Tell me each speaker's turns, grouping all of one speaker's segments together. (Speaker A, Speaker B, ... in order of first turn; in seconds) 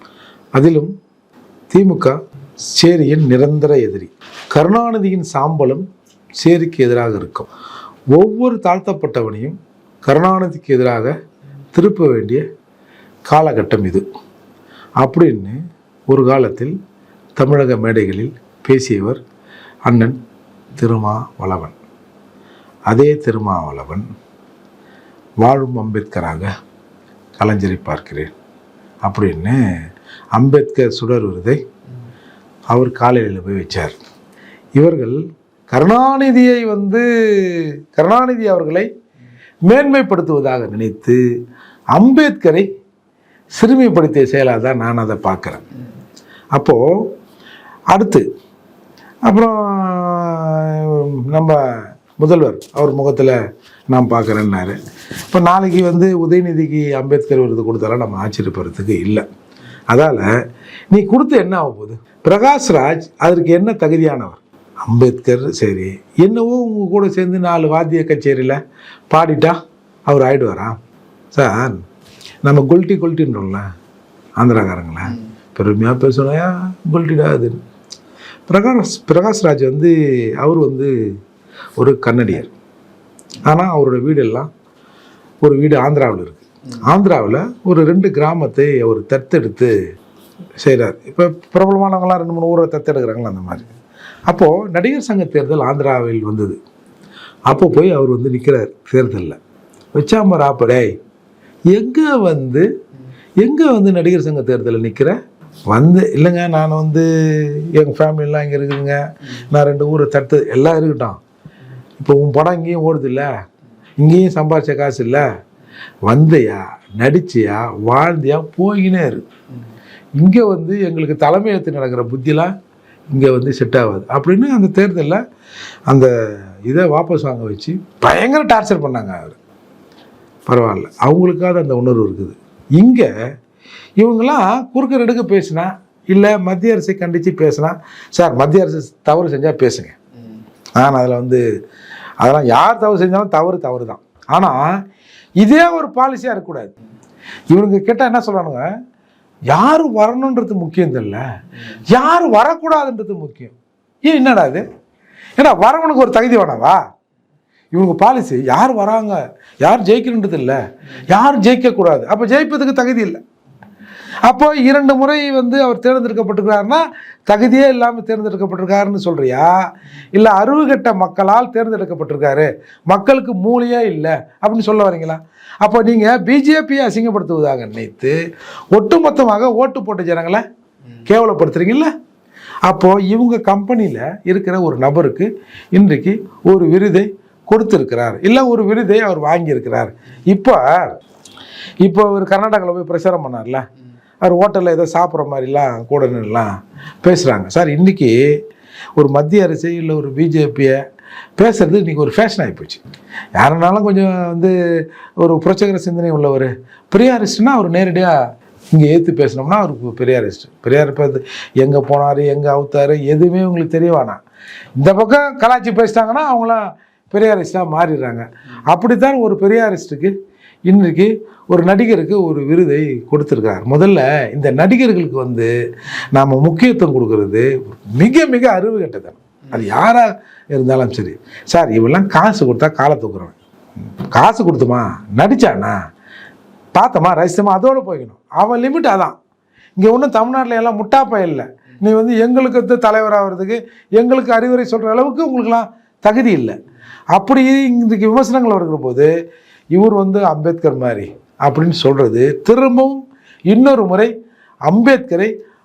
Speaker A: 0.5-0.9, 1.7-2.2, 2.7-5.8, 6.4-7.5, 8.1-11.1, 11.7-12.4, 13.3-14.0, 15.0-16.7, 17.4-19.2, 19.9-20.2, 20.7-21.8, 22.9-24.1, 25.4-26.5, 27.4-28.3, 29.0-29.6, 30.3-31.6, 32.7-34.0, 34.8-38.9, 39.6-41.2, 41.9-42.7, 43.6-45.6, 46.5-47.0, 47.9-48.2, 49.2-53.4, 53.9-59.2, 59.9-60.3, 60.9-68.6, 69.1-70.8, 71.3-71.8, 72.4-73.7, 74.4-77.6, 78.5-80.9, 81.8-82.5, 83.4-84.5, 85.4-89.8, 90.6-93.7, 94.3-96.6, 97.5-99.4, 99.9-100.9, 101.7-102.7, 103.4-105.2, 105.7-111.2, 112.0-113.3, 114.0-115.2, 116.1-119.3, 120.2-122.5, 123.1-125.2, 126.7-129.4, 130.5-133.1, 134.0-139.9, 140.8-141.4, 142.2-144.8, 145.4-146.7, 147.5-148.7, 149.5-154.6, 155.4-156.8, 157.7-163.2, 164.2-178.2, 178.7-180.4, 181.0-181.9, 182.6-190.9, 191.8-193.6, 194.2-198.4, 198.9-200.8, 201.4-202.8, 203.3-208.2, 208.7-214.2, 214.8-220.1, 220.7-225.5, 226.1-233.3, 234.1-235.8, 236.7-239.2, 239.8-246.6, 247.1-249.1, 249.7-254.1, 254.7-255.3